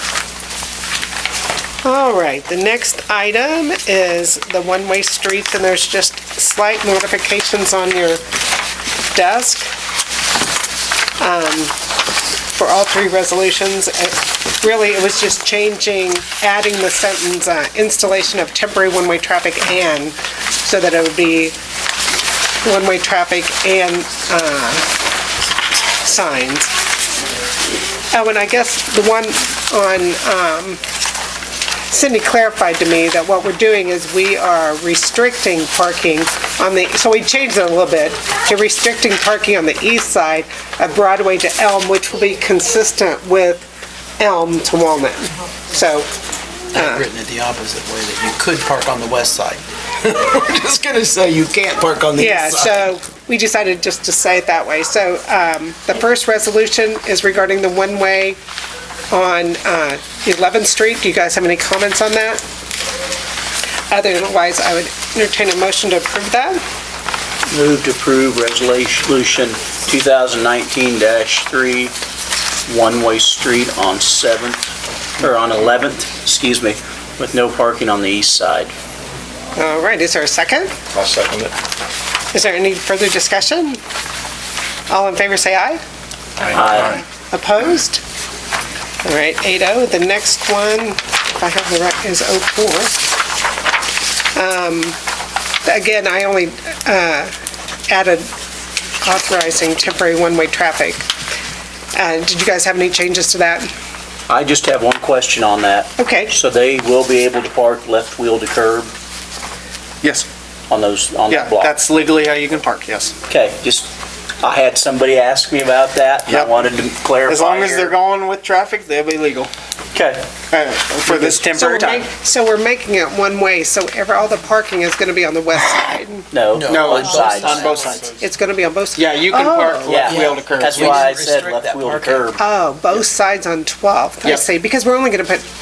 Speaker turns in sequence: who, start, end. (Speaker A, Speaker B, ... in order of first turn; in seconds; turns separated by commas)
Speaker A: 1.8-8.2, Speaker A: 9.1-9.7, Speaker A: 11.2-11.7, Speaker A: 12.5-21.5, Speaker A: 22.6-24.8, Speaker A: 26.0-26.7, Speaker A: 28.1-30.8, Speaker A: 31.9-43.6, Speaker A: 44.2-46.1, Speaker B: 46.7-52.9, Speaker A: 46.7-47.0, Speaker A: 52.1-58.4, Speaker A: 59.1-62.4, Speaker A: 63.9-66.6, Speaker C: 67.5-71.9, Speaker C: 72.7-74.6, Speaker C: 75.2-78.7, Speaker A: 79.5-80.7, Speaker D: 81.0-81.4, Speaker A: 82.3-83.8, Speaker A: 84.9-85.8, Speaker C: 86.4-87.0, Speaker A: 86.8-88.0, Speaker A: 89.0-92.9, Speaker A: 94.3-95.0, Speaker A: 95.7-97.3, Speaker A: 97.9-98.3, Speaker A: 99.0-101.0, Speaker A: 102.0-103.7, Speaker C: 104.3-108.9, Speaker A: 106.0-106.3, Speaker D: 110.0-110.3, Speaker C: 110.7-111.7, Speaker D: 111.3-113.1, Speaker C: 113.3-113.9, Speaker C: 114.4-117.9, Speaker D: 116.3-119.5, Speaker C: 119.9-120.2, Speaker D: 120.5-122.1, Speaker A: 121.5-126.3, Speaker C: 126.3-127.6, Speaker B: 126.5-128.0, Speaker D: 126.7-128.1, Speaker A: 128.2-130.0, Speaker D: 128.9-131.1, Speaker C: 129.8-132.4, Speaker B: 130.0-132.3, Speaker A: 132.4-135.4